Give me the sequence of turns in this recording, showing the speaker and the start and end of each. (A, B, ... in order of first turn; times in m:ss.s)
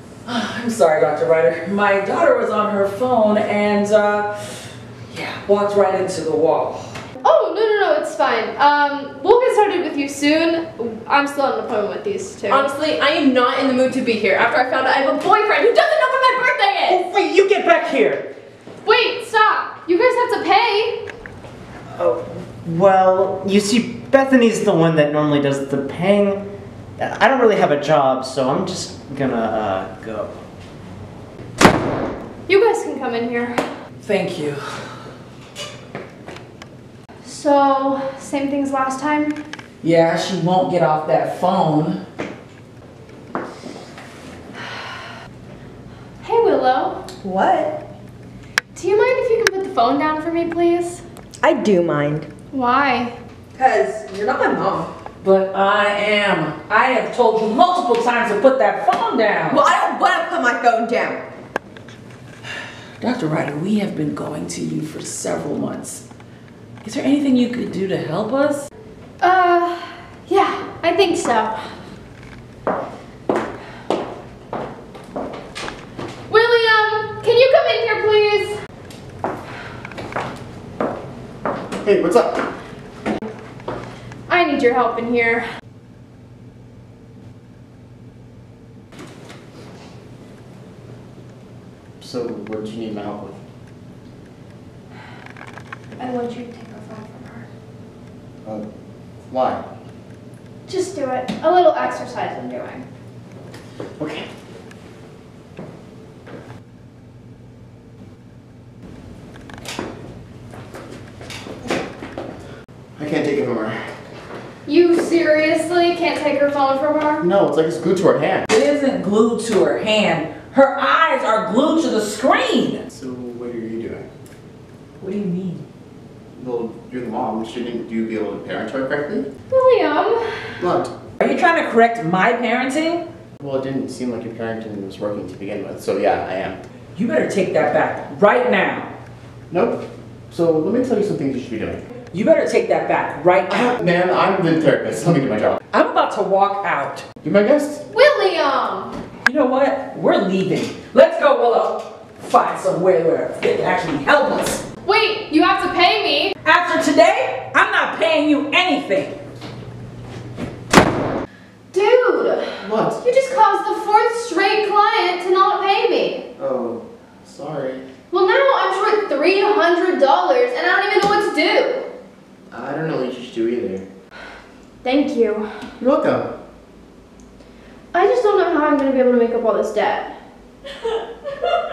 0:00.2-0:07.0 A
0:07.2-0:12.7 B
0:12.5-0:17.0 C
0:16.9-0:18.3 D
0:18.8-0:21.0 B
0:21.9-0:30.4 D
0:32.5-0:33.6 B
0:34.0-0:34.9 A
0:37.2-0:39.4 B
0:39.8-0:42.0 A
0:46.2-0:47.0 B
0:47.2-0:47.8 E
0:48.7-0:51.0 B
0:51.4-0:52.3 E
0:52.5-0:53.2 B
0:53.6-0:54.9 E
0:55.2-0:59.7 A
0:59.5-1:01.2 E
1:03.0-1:06.1 A
1:06.8-1:08.7 A
1:09.2-1:11.7 B
1:16.3-1:18.6 B
1:21.8-1:22.4 F
1:24.3-1:25.5 B
1:32.0-1:33.4 F
1:36.0-1:37.5 B
1:39.3-1:39.6 F
1:40.7-1:42.9 B
1:44.0-1:44.3 F
1:53.0-1:53.9 F
1:54.7-1:57.2 B
1:57.2-1:58.4 F
1:58.5-2:02.8 A
2:02.9-2:04.1 F
2:05.0-2:05.6 A
2:06.4-2:09.3 F
2:09.5-2:10.5 B
2:10.6-2:10.9 F
2:11.2-2:13.1 A
2:13.4-2:16.6 F
2:17.0-2:18.9 A
2:19.5-2:21.8 F
2:22.1-2:23.8 A
2:23.5-2:25.6 F
2:25.7-2:27.1 A
2:27.2-2:27.8 F
2:27.9-2:28.9 B
2:29.2-2:34.6 A
2:34.8-2:36.4 B
2:36.4-2:39.2 A
2:41.7-2:46.2 B
2:42.6-2:43.0 F
2:46.4-2:47.8 F
2:48.1-2:51.9 B
2:52.5-2:53.9 F
2:54.8-2:55.5 B
2:55.8-2:56.3 F
2:57.9-3:00.2 B